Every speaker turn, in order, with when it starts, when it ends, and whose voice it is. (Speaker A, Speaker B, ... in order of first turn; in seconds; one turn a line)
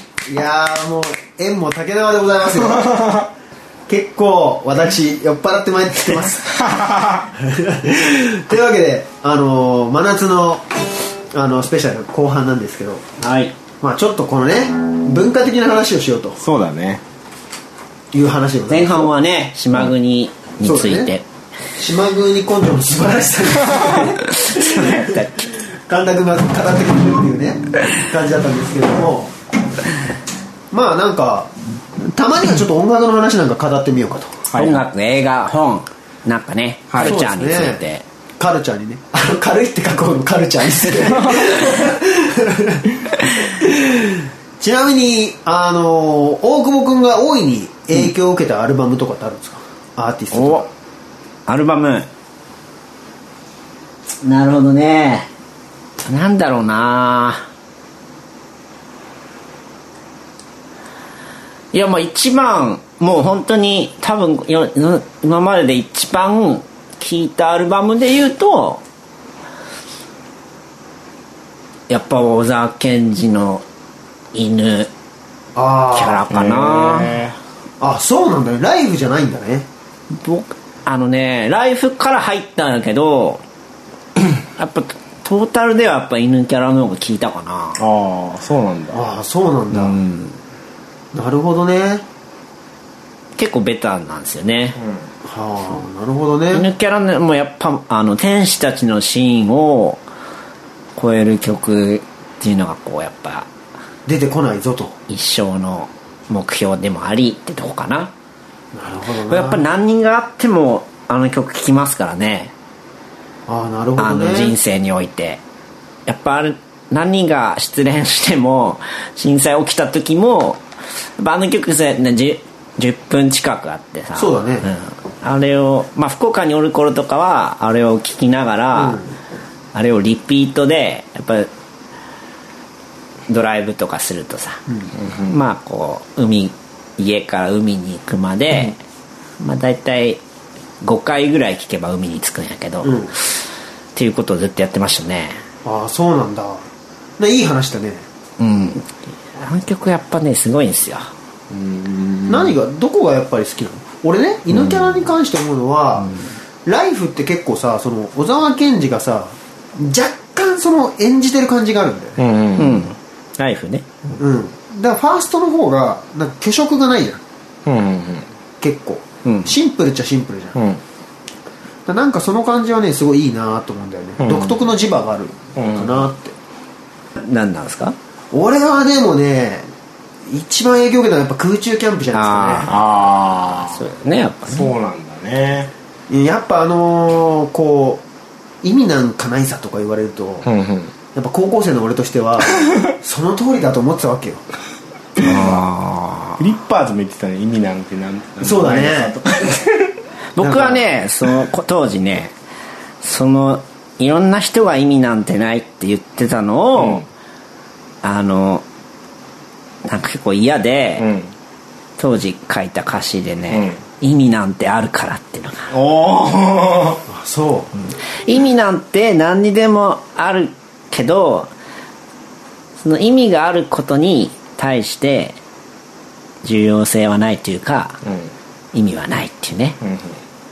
Speaker A: 0.3-2.9
Speaker B: 2.7-3.3
Speaker A: 3.9-6.6
Speaker B: 6.4-7.3
Speaker A: 7.4-10.7
Speaker A: 11.3-13.0
Speaker C: 13.2-13.5
Speaker A: 13.8-16.4
Speaker B: 16.4-17.0
Speaker A: 18.1-19.1
Speaker C: 18.7-21.2
Speaker A: 20.6-21.1
Speaker A: 21.8-29.3
Speaker C: 23.9-25.4
Speaker A: 30.7-31.5
Speaker A: 32.0-34.5
Speaker B: 34.5-34.8
Speaker C: 34.5-38.0
Speaker B: 36.9-37.1
Speaker A: 37.0-37.8
Speaker A: 38.4-50.7
Speaker C: 50.3-50.6
Speaker C: 51.5-52.1
Speaker C: 54.2-55.3
Speaker C: 56.0-57.5
Speaker C: 61.7-68.8
Speaker C: 71.9-73.6
Speaker C: 74.3-74.9
Speaker A: 75.5-76.3
Speaker C: 75.9-77.2
Speaker B: 76.3-77.4
Speaker A: 77.8-79.7
Speaker C: 80.1-83.4
Speaker C: 84.5-87.8
Speaker B: 87.8-89.0
Speaker A: 88.9-90.0
Speaker C: 89.7-90.3
Speaker A: 91.1-92.0
Speaker C: 93.4-94.8
Speaker B: 94.8-95.1
Speaker A: 95.2-96.7
Speaker C: 96.5-100.0
Speaker C: 101.0-103.5
Speaker A: 104.0-105.0
Speaker C: 105.1-108.1
Speaker A: 108.7-109.6
Speaker C: 109.3-112.5
Speaker A: 113.5-114.5
Speaker C: 114.0-115.4
Speaker C: 116.0-120.6
Speaker C: 121.2-129.0
Speaker A: 124.1-124.7
Speaker A: 128.7-129.1
Speaker C: 129.7-131.5
Speaker C: 133.3-134.6
Speaker B: 135.0-135.3
Speaker C: 135.2-138.8
Speaker C: 139.4-140.2
Speaker C: 140.8-143.4
Speaker A: 142.8-143.1
Speaker C: 143.9-145.4
Speaker A: 145.6-146.7
Speaker A: 147.2-148.0
Speaker C: 148.4-151.1
Speaker B: 151.5-152.6
Speaker A: 152.3-162.2
Speaker B: 154.5-155.0
Speaker B: 162.2-162.8
Speaker C: 162.6-163.9
Speaker A: 164.2-167.2
Speaker B: 167.7-168.3
Speaker A: 168.6-170.6
Speaker C: 169.2-169.5
Speaker B: 170.5-170.8
Speaker A: 171.8-176.3
Speaker B: 174.2-174.6
Speaker B: 175.5-176.1
Speaker C: 177.2-177.9
Speaker A: 178.3-179.7
Speaker A: 180.2-182.7
Speaker C: 182.1-182.7
Speaker B: 182.6-183.8
Speaker C: 183.6-184.7
Speaker B: 184.5-185.7
Speaker A: 186.1-188.0
Speaker A: 188.6-190.5
Speaker B: 190.4-190.9
Speaker A: 191.1-194.4
Speaker C: 195.2-196.4
Speaker B: 195.2-195.5
Speaker B: 196.4-199.9
Speaker A: 198.4-199.2
Speaker C: 200.3-202.3
Speaker A: 200.4-200.8
Speaker C: 203.0-207.0
Speaker B: 206.8-207.1
Speaker C: 208.0-208.6
Speaker C: 209.8-211.1
Speaker B: 211.0-211.3
Speaker C: 212.0-215.7
Speaker B: 213.5-213.8
Speaker B: 215.7-217.0
Speaker A: 217.1-217.7
Speaker C: 218.1-221.5
Speaker C: 222.8-225.4
Speaker C: 226.4-228.0
Speaker B: 228.0-228.3
Speaker C: 228.7-229.8
Speaker B: 229.8-230.2